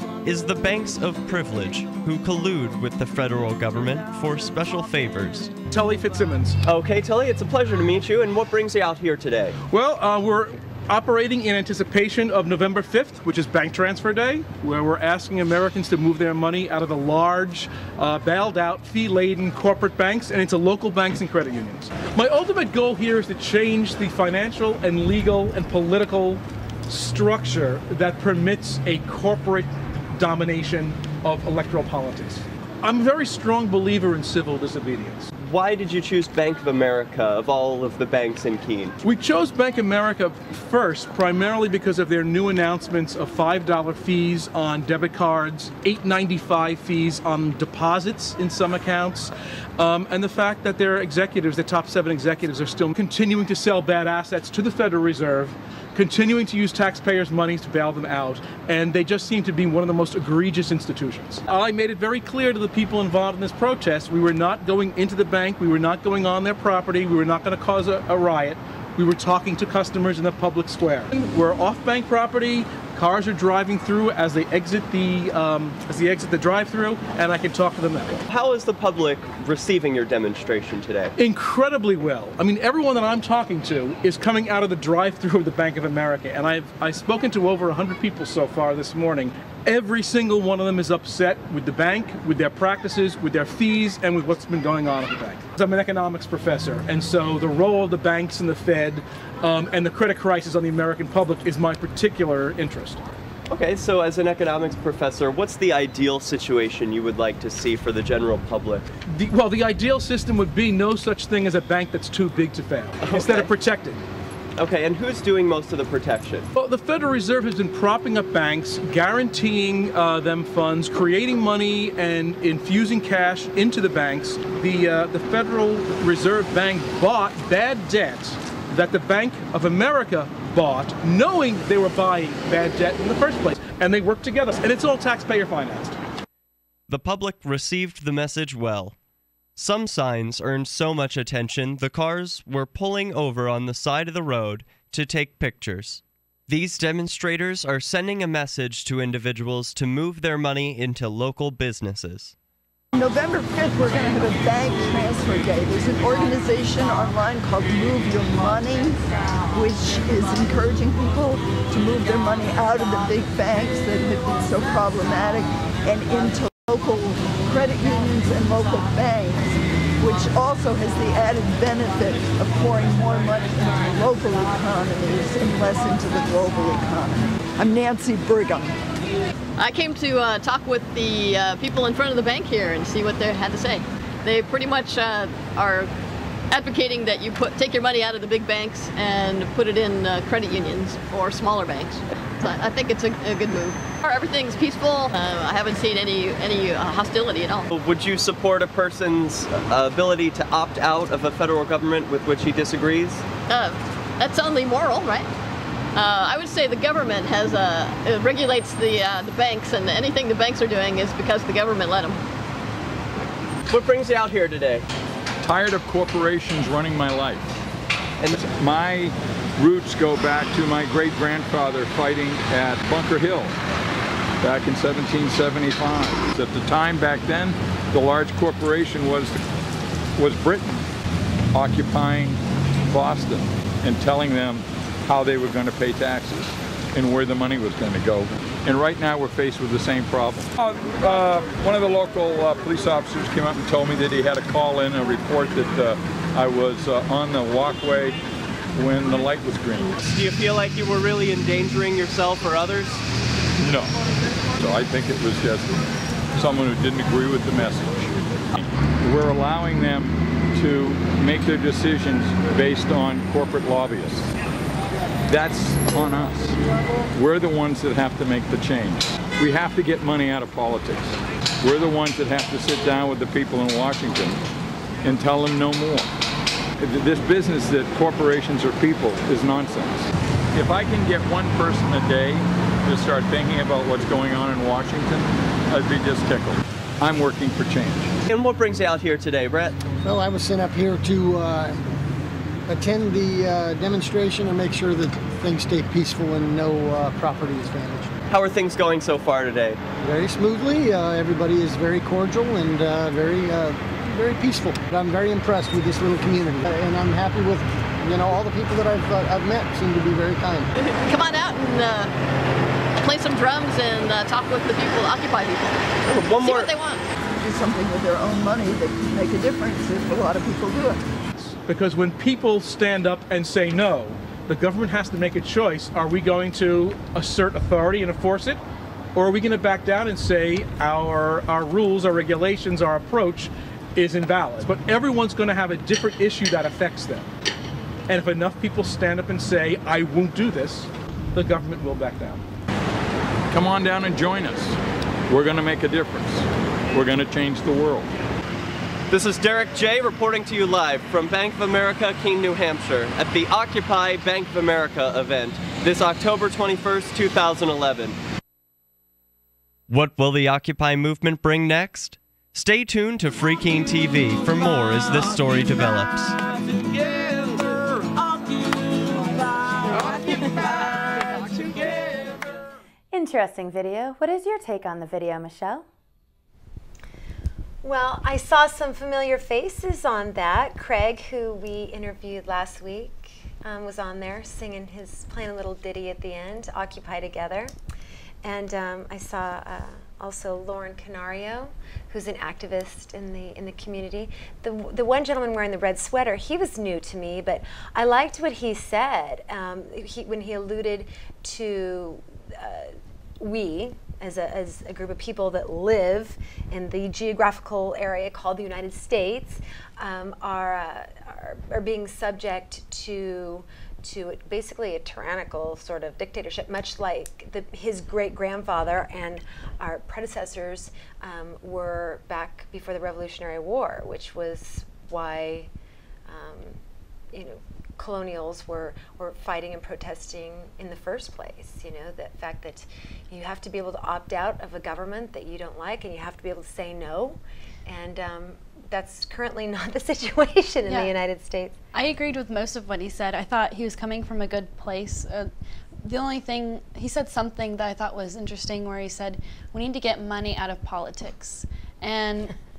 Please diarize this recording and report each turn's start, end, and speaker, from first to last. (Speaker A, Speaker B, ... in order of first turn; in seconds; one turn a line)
Speaker A: 0.2-5.5
Speaker B: 5.7-6.6
Speaker A: 6.7-9.6
Speaker B: 9.7-35.3
Speaker A: 35.4-39.0
Speaker B: 39.0-78.2
Speaker A: 78.3-81.1
Speaker B: 81.2-103.0
Speaker A: 103.5-108.8
Speaker B: 109.1-114.0
Speaker A: 113.0-113.5
Speaker A: 114.6-116.5
Speaker B: 116.5-136.0
Speaker A: 136.9-138.9
Speaker A: 139.6-152.3
Speaker C: 152.9-159.0
Speaker C: 159.5-178.8
Speaker D: 179.6-185.9
Speaker D: 186.5-197.7
Speaker A: 197.7-203.3
Speaker D: 203.5-205.3
Speaker D: 205.9-212.2
Speaker A: 213.7-214.8
Speaker E: 215.4-217.5
Speaker E: 218.3-223.5
Speaker E: 224.4-229.4
Speaker E: 230.2-230.8
Speaker E: 231.5-248.2
Speaker E: 248.7-250.0
Speaker A: 250.0-253.0
Speaker E: 253.6-253.9
Speaker E: 254.6-255.8
Speaker E: 256.4-264.3
Speaker E: 265.3-266.6
Speaker E: 267.1-274.4
Speaker E: 275.0-276.1
Speaker E: 276.8-288.1
Speaker A: 288.3-289.8
Speaker F: 290.0-291.8
Speaker F: 292.7-298.2
Speaker A: 298.3-299.8
Speaker F: 300.0-310.7
Speaker D: 310.8-312.1
Speaker D: 313.0-317.1
Speaker A: 316.1-316.7
Speaker C: 317.4-321.0
Speaker B: 321.5-328.6
Speaker B: 329.1-337.3
Speaker B: 338.1-342.4
Speaker E: 343.5-344.8
Speaker E: 345.3-348.1
Speaker A: 349.1-358.2
Speaker A: 359.9-366.4
Speaker G: 373.1-375.9
Speaker H: 377.8-387.7
Speaker H: 388.4-425.7
Speaker H: 426.3-426.8
Speaker H: 427.3-441.8
Speaker I: 440.9-441.1
Speaker I: 441.9-445.5
Speaker I: 446.0-452.5